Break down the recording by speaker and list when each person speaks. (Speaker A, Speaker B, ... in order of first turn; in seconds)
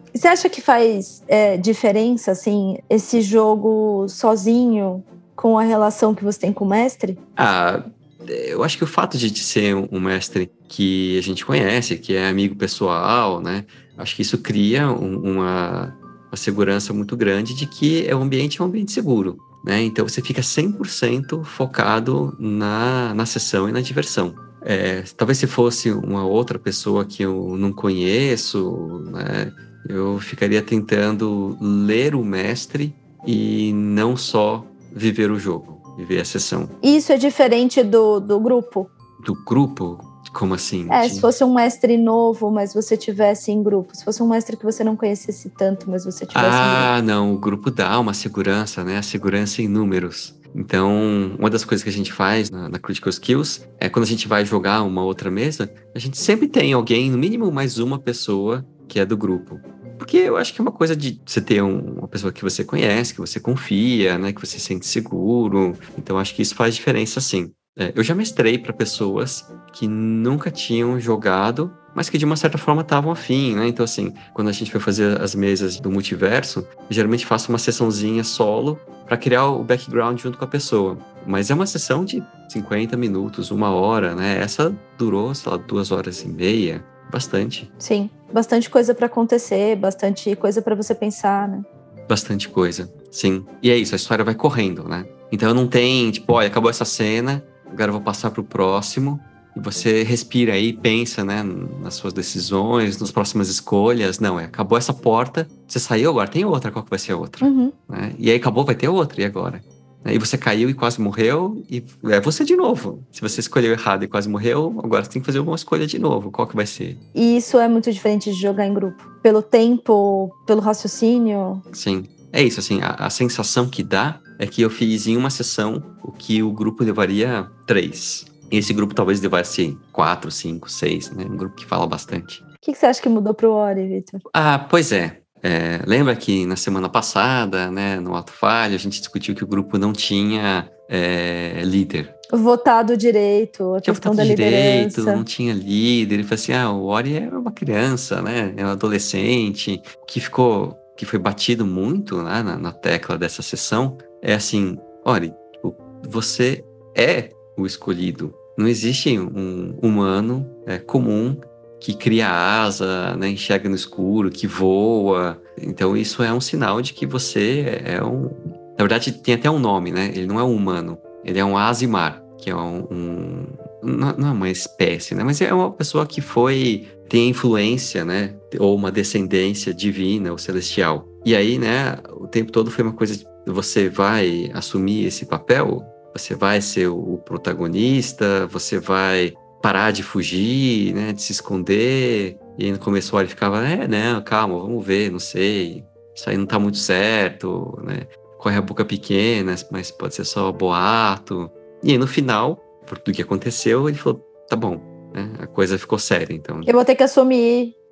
Speaker A: 0.1-7.2, 36.8-38.9, 40.9-46.9, 87.8-91.7, 107.4-107.8, 117.1-121.6, 132.6-134.2, 142.3-145.2, 206.6-207.8
Speaker B: 7.4-36.8, 39.2-41.3, 46.3-87.7, 92.1-117.0, 121.7-132.4, 134.3-142.1, 143.8-206.7